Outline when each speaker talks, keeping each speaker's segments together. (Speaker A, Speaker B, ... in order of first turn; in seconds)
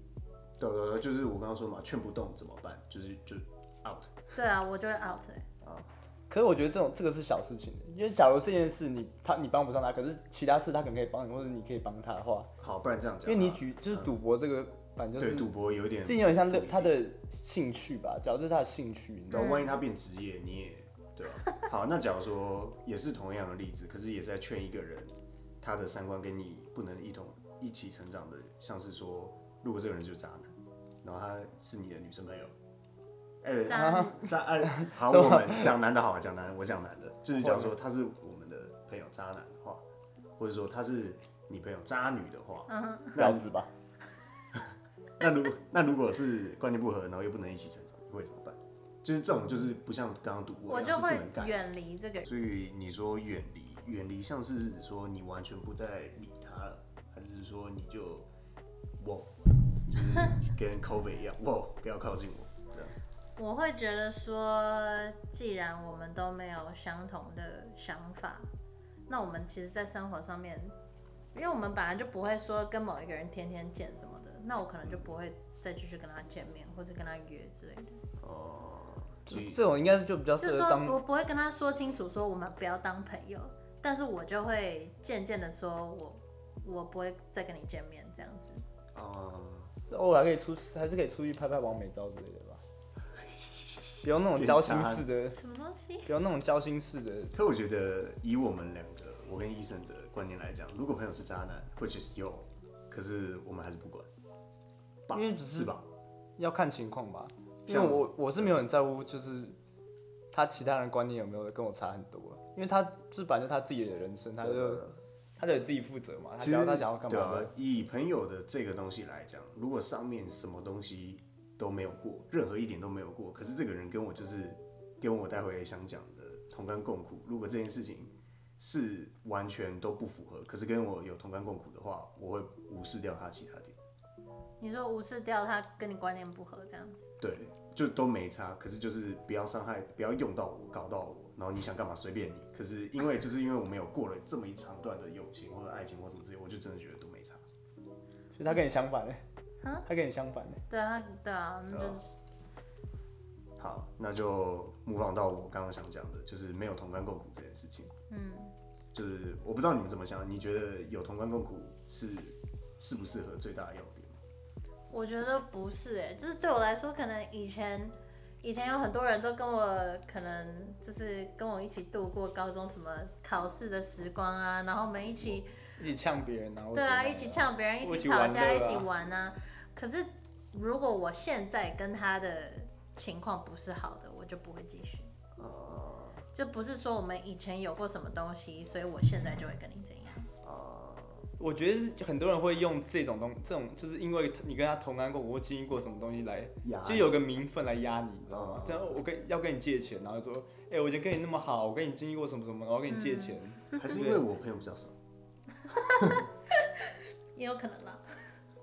Speaker A: 0.6-4.1, 5.6-5.9, 12.6-14.1, 15.2-16.9, 19.3-32.5, 33.4-39.8, 40.4-43.5, 44.5-51.5, 52.2-58.3, 59.0-63.0, 78.2-79.6, 88.9-89.7, 93.2-95.1, 97.3-104.1, 105.1-105.9, 107.7-108.6, 114.4-115.0, 116.4-133.8, 137.2-147.4, 151.7-152.0, 153.6-157.9, 158.9-164.2, 185.4-186.2, 190.4-191.3, 196.6-197.2, 198.3-199.0, 203.8-205.0
Speaker B: 4.3-5.5, 19.3-19.8, 33.7-34.1, 42.7-43.2, 50.7-52.3, 63.4-68.5, 69.1-70.7, 71.3-78.0, 80.4-88.6, 95.3-96.1, 134.6-137.1, 150.7-152.0, 158.1-158.5, 164.9-175.5, 176.7-185.1, 186.3-190.3, 202.9-203.8, 205.7-208.0
Speaker C: 6.3-12.5, 13.3-15.5, 16.0-19.6, 33.7-35.7, 37.4-37.7, 43.2-43.7, 79.3-81.0, 89.9-92.6, 94.0-95.4, 96.1-97.3, 105.1-105.8, 106.4-109.6, 110.3-114.8, 115.4-117.5, 148.3-149.2, 149.9-150.6, 175.8-178.9, 191.4-204.2